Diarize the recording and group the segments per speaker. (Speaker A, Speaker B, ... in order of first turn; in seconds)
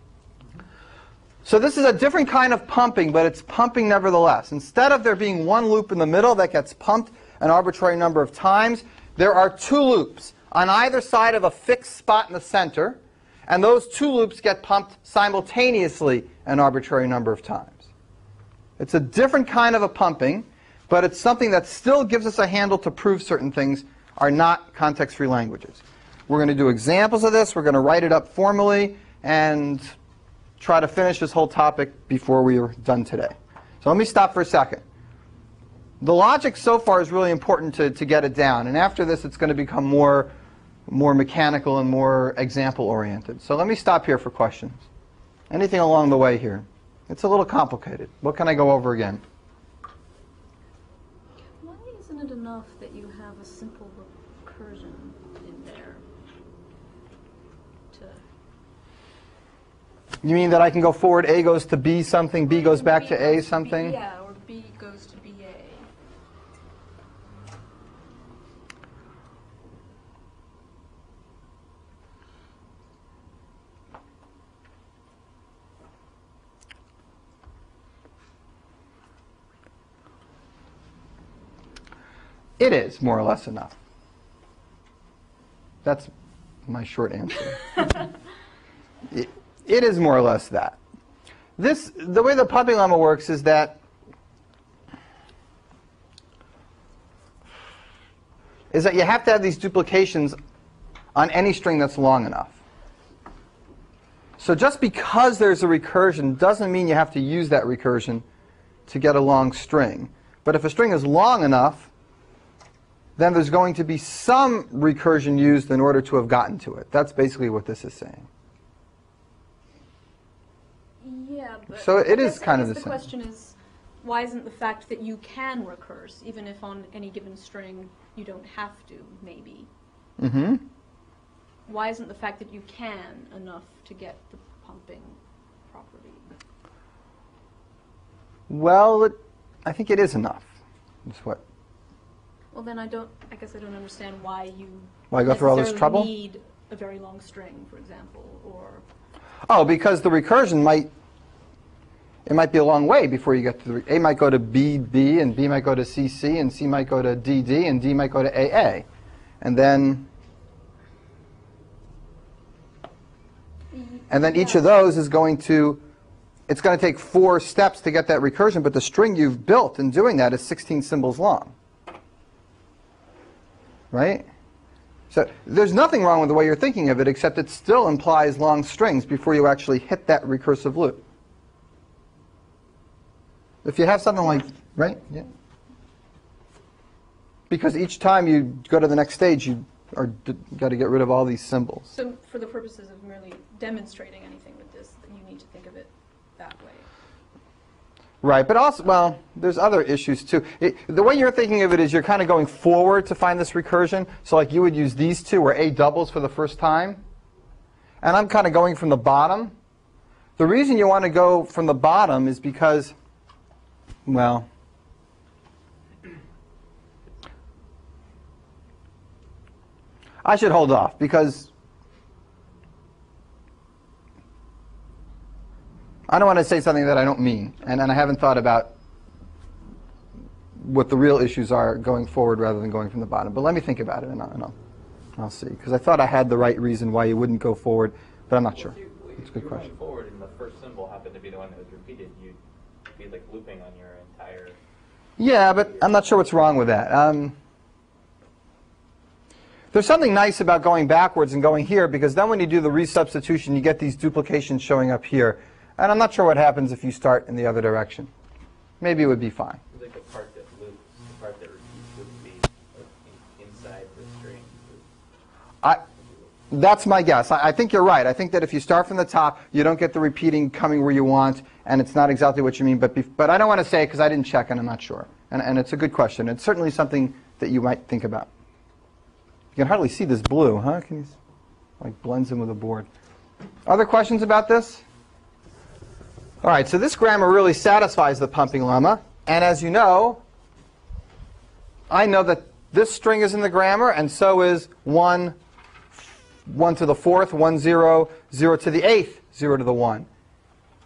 Speaker A: 1.4-17.9, 18.8-29.9, 30.6-34.8, 36.0-40.3, 40.9-44.9, 45.5-49.2, 60.2-64.0, 82.6-83.8, 85.8-86.1, 86.7-88.0, 89.1-90.8, 91.6-93.8, 98.7-100.4, 101.2-102.6, 104.4-108.2, 108.9-111.9, 113.2-118.3, 121.7-123.0, 130.2-130.6, 138.5-140.5, 141.1-141.4, 145.1-146.1, 149.5-150.9, 152.2-158.8, 159.4-160.1, 164.1-165.8, 166.5-171.5, 173.9-174.2, 175.1-181.0, 183.6-185.3, 187.5-191.9, 198.2-207.0, 208.0-209.6, 210.4-212.9, 214.1-214.5, 220.2-221.5, 226.1-228.7, 230.6-234.5, 235.2-239.6, 245.2-247.3, 249.7-258.1, 258.8-259.6, 266.5-278.3, 279.5-281.1, 281.8-282.9, 283.6-284.8, 286.4-290.2, 291.9-295.4, 295.9-300.1
Speaker B: 51.6-56.0, 57.9-58.2, 62.5-65.9, 121.0-129.7, 131.7-136.3, 142.5-148.8, 163.7-164.7, 191.9-196.9
Speaker C: 238.5-242.4, 242.9-244.6, 245.6-245.9, 259.7-264.9